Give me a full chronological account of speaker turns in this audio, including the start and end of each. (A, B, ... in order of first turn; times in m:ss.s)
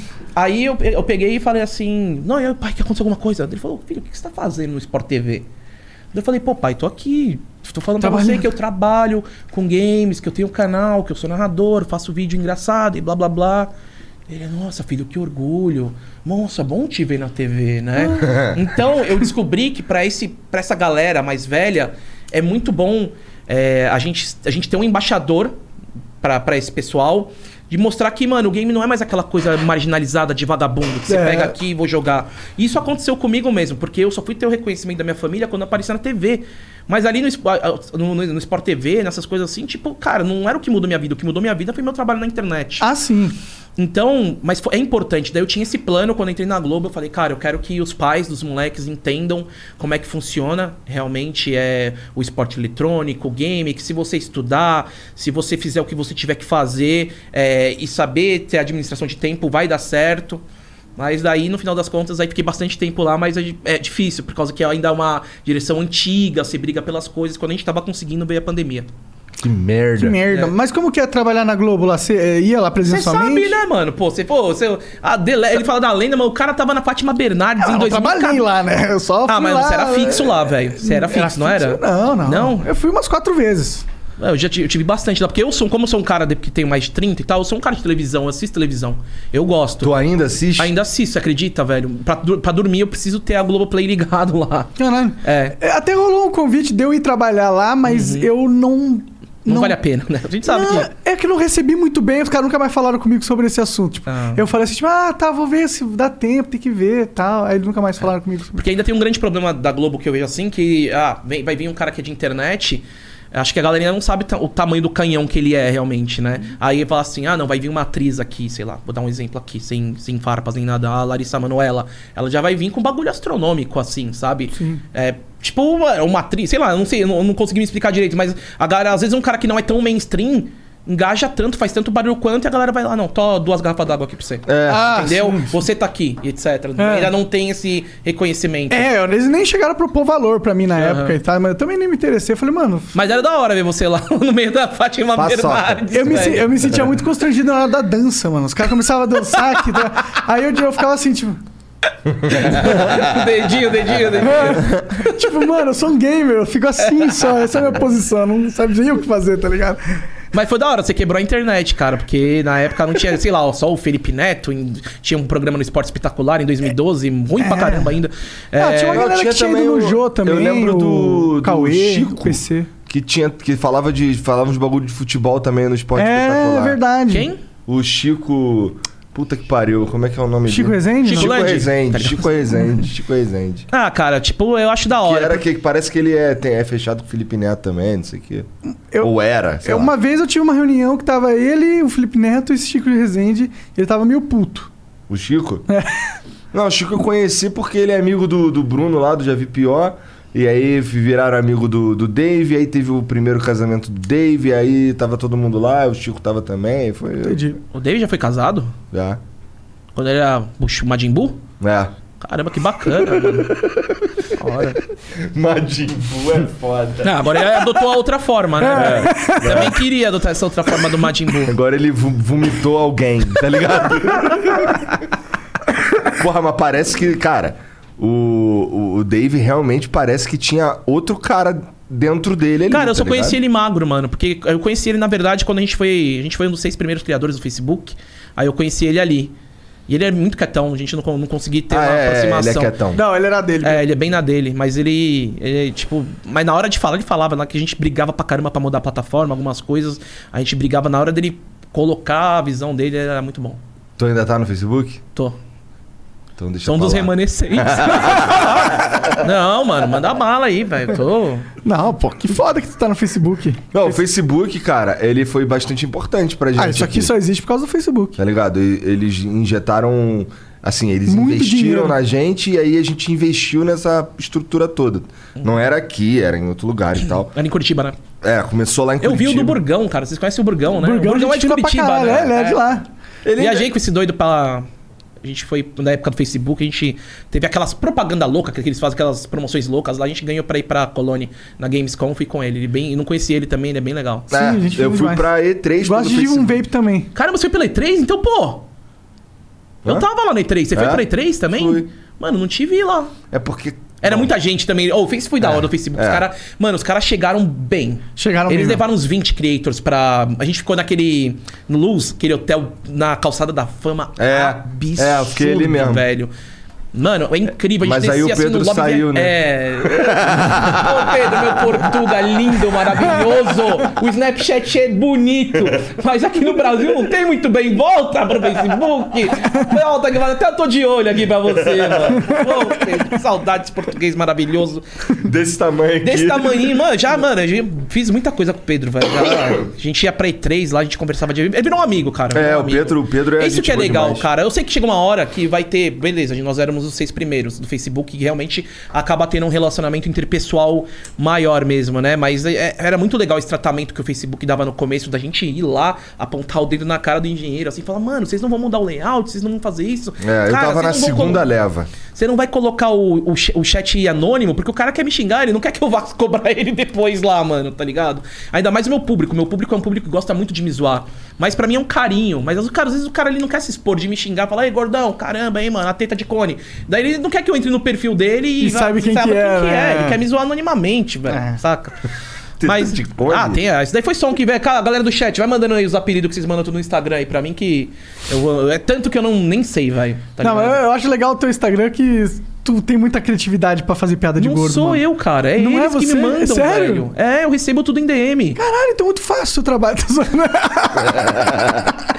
0:00.4-0:05.5 A
0:06.1-0:13.7 A
0:08.0-0:08.5 B
0:14.3-0:25.6 A
0:26.2-0:42.9 A
0:31.1-0:31.5 B
0:42.8-0:43.4 B
0:43.8-1:00.4 A
1:01.0-1:08.9 A
1:09.4-1:10.2 C
1:10.0-1:13.6 B
1:12.8-1:18.5 A
1:17.6-1:23.8 B
1:19.3-1:22.7 A
1:24.2-1:29.9 A
1:29.8-1:30.7 C
1:30.6-1:35.6 A
1:34.8-1:39.8 B
1:37.9-1:38.3 A
1:39.5-1:40.9 A
1:40.5-1:48.6 B
1:44.1-1:44.4 A
1:48.6-2:18.9 A
2:14.5-2:15.0 C
2:14.7-2:15.5 B
2:16.8-2:17.1 B
2:18.7-2:22.9 B
2:20.8-2:21.2 A
2:22.9-2:26.6 A
2:25.2-2:26.4 C
2:25.9-2:31.4 B
2:32.3-2:35.1 A
2:34.2-2:39.8 B
2:40.3-2:49.1 A
2:47.4-2:48.0 B
2:48.6-2:52.7 B
2:48.9-2:56.8 C
2:56.0-2:57.3 B
2:57.1-2:57.4 A
2:57.7-3:03.7 C
3:00.5-3:01.4 B
3:01.1-3:02.3 A
3:03.7-3:05.4 A
3:05.0-3:08.5 C
3:09.0-3:09.9 C
3:09.6-3:14.7 B
3:15.1-3:15.6 C
3:16.5-3:27.4 C
3:27.2-3:27.6 B
3:27.7-3:28.7 A
3:28.9-3:29.2 C
3:30.0-3:31.4 A
3:31.6-3:31.9 C
3:32.2-3:33.6 A
3:34.4-3:34.8 A
3:35.2-3:37.4 C
3:37.0-3:41.5 A
3:38.7-3:39.8 C
3:38.7-3:39.5 B
3:41.4-3:44.9 C
3:46.0-3:53.4 C
3:52.7-3:59.3 A
3:59.9-4:02.7 A
4:01.7-4:03.0 C
4:03.0-4:03.8 B
4:03.6-4:13.6 A
4:14.0-4:15.0 C
4:16.4-4:19.0 C
4:16.6-4:21.5 A
4:21.6-4:24.0 B
4:23.7-4:27.1 C
4:26.6-4:28.2 B
4:28.2-4:37.3 C
4:31.1-4:32.0 B
4:37.2-4:38.0 A
4:38.2-4:39.6 C
4:39.0-4:42.6 A
4:40.8-4:42.8 B
4:43.2-4:43.7 C
4:43.4-4:44.7 A
4:45.2-4:54.3 A
4:54.3-4:55.3 B
4:54.3-4:56.6 C
4:55.8-4:57.1 B
4:57.1-4:58.6 A
4:59.8-5:03.1 A
5:00.7-5:01.8 C
5:03.3-5:04.3 C
5:04.0-5:16.3 A
5:05.4-5:06.2 C
5:08.2-5:08.8 B
5:14.2-5:16.0 C
5:16.9-5:34.8 A
5:17.8-5:21.6 C
5:35.2-5:36.7 C
5:36.0-6:01.5 A
5:42.3-5:44.2 C
6:00.2-6:01.9 C
6:02.1-6:22.0 A
6:18.6-6:20.2 B
6:21.3-6:21.6 B
6:22.6-6:23.6 C
6:22.6-6:30.8 A
6:30.4-6:35.0 B
6:34.4-6:38.6 A
6:35.6-6:37.1 B
6:38.6-6:41.4 B